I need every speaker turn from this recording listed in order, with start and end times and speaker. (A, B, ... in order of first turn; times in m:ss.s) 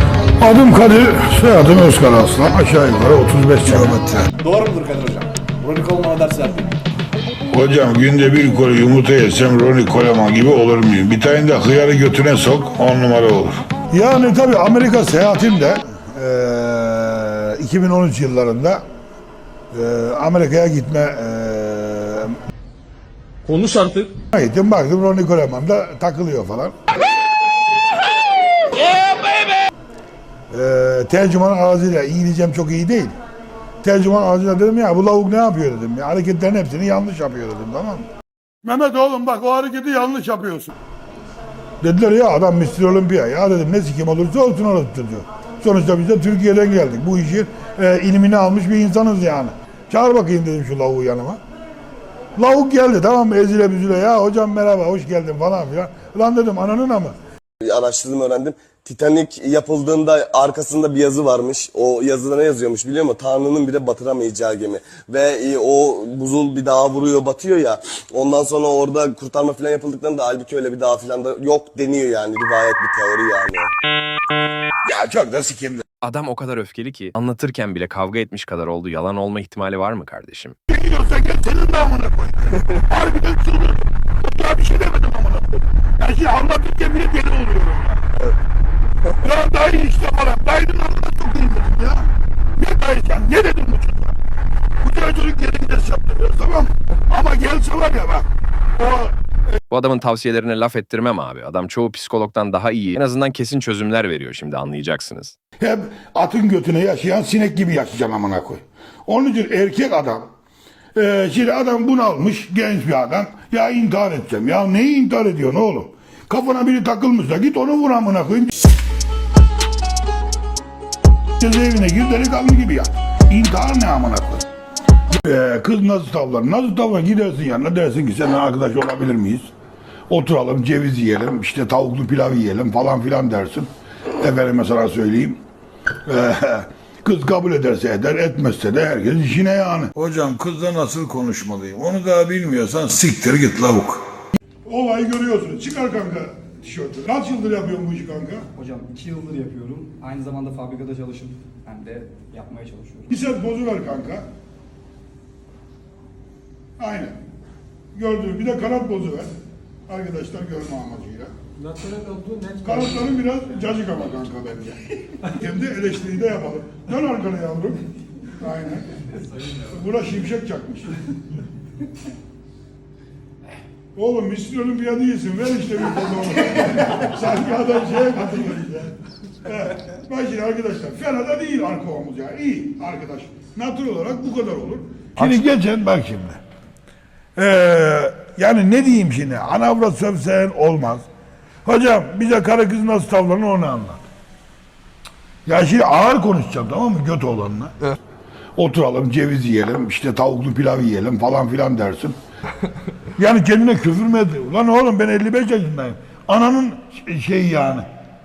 0:00.4-0:04.3 A
0:04.4-0:06.5 B
0:07.5-0:18.8 A
0:19.7-0:22.4 A
0:23.5-0:24.1 C
0:24.3-0:26.7 A
0:30.5-0:33.1 A
0:33.8-0:38.1 A
0:38.6-0:40.7 A
0:41.8-0:51.4 A
0:52.4-0:57.2 A
0:57.6-1:13.7 D
1:14.8-1:15.8 A
1:16.0-1:20.5 E
1:20.7-1:28.2 A
1:29.2-1:34.2 A
1:34.8-1:39.1 A
1:39.7-1:45.3 E
1:45.6-1:50.3 A
1:51.0-1:58.6 A
2:01.4-2:04.4 A
2:05.1-2:09.5 A
2:10.1-2:15.4 A
2:16.0-2:24.0 A
2:24.6-2:28.4 A
2:28.5-2:33.1 F
2:33.1-2:34.2 A
2:36.8-2:37.2 A
2:37.9-2:39.3 A
2:39.9-2:41.3 A
2:41.6-2:43.0 C
2:42.6-2:47.8 A
2:48.4-2:48.9 A
2:49.5-2:51.0 A
2:53.9-3:06.4 A
3:07.4-3:11.0 A
3:11.6-3:14.0 A
3:15.4-3:17.7 A
3:18.6-3:22.2 A
3:23.2-3:27.8 A